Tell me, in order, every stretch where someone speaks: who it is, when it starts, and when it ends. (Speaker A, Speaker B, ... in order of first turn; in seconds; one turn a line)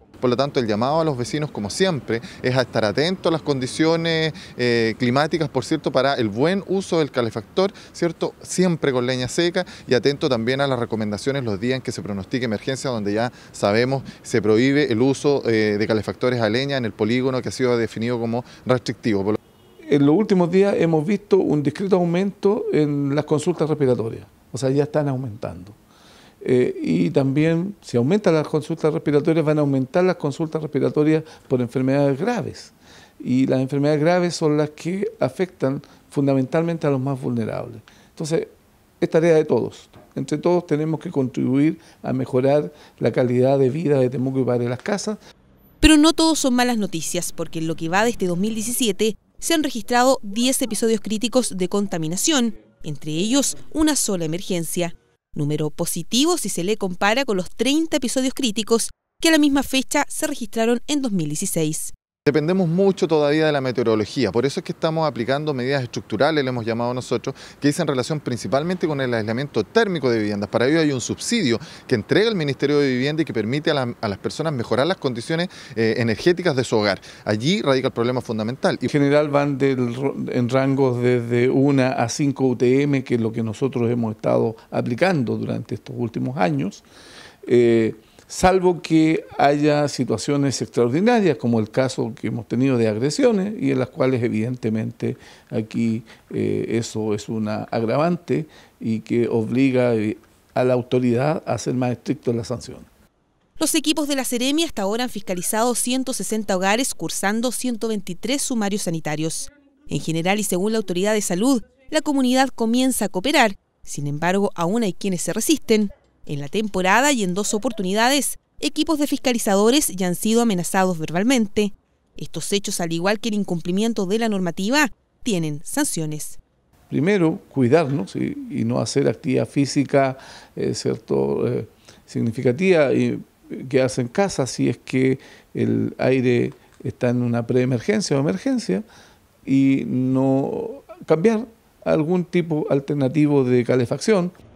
Speaker A: 0.2-19.4
Speaker B: 19.9-25.8
Speaker B: 26.4-45.2
Speaker C: 45.8-61.9
Speaker A: 62.2-78.9
Speaker B: 78.9-86.8
Speaker B: 87.4-102.9
Speaker C: 103.6-126.4
Speaker B: 126.9-138.8
Speaker B: 139.4-144.3